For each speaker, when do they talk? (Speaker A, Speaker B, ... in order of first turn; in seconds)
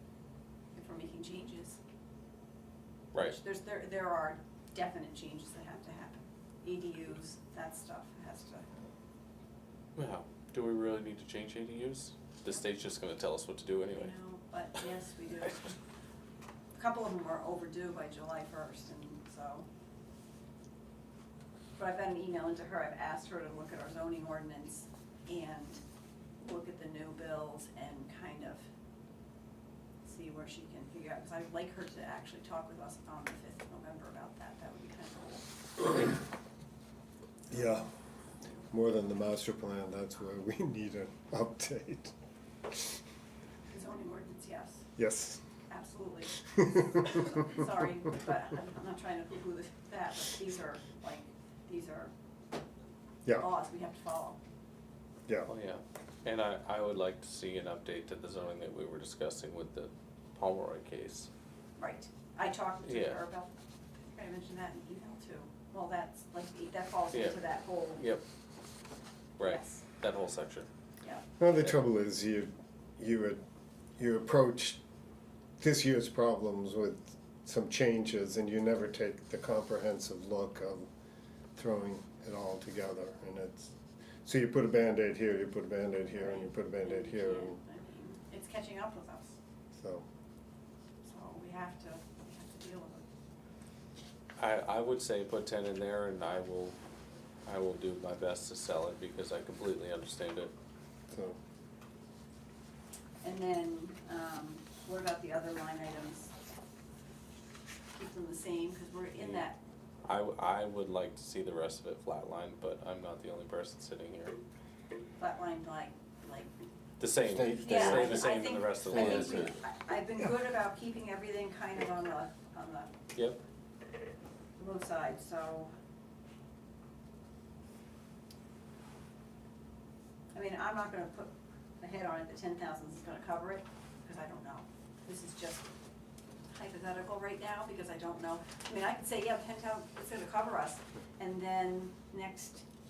Speaker A: 0.7-1.8, 3.2-8.7, 13.9-15.8, 16.7-19.6, 21.8-25.8, 26.4-28.6, 30.0-36.1, 43.7-44.9, 45.7-52.1, 53.4-54.4, 61.8-63.5, 64.1-68.0, 69.4-69.8, 86.2-89.4, 91.0-93.0, 103.2-106.3, 107.9-109.6, 115.2-116.5, 117.6-122.9, 124.6-125.7, 130.3-135.7, 136.5-142.6
Speaker B: 3.1-3.4, 9.9-14.1, 55.5-61.3, 62.8-63.2, 67.1-67.4, 68.0-68.2, 69.4-70.7, 71.5-71.8, 94.4-96.8, 97.5-100.5, 109.2-109.4, 110.0-114.4, 117.0-119.5
Speaker C: 37.5-37.9, 38.7-42.1, 45.0-45.4, 46.4-47.6, 71.4-73.4, 74.0-74.8, 75.6-80.9, 81.5-87.6, 89.7-90.0, 101.1-101.4, 117.2-118.3, 118.9-119.4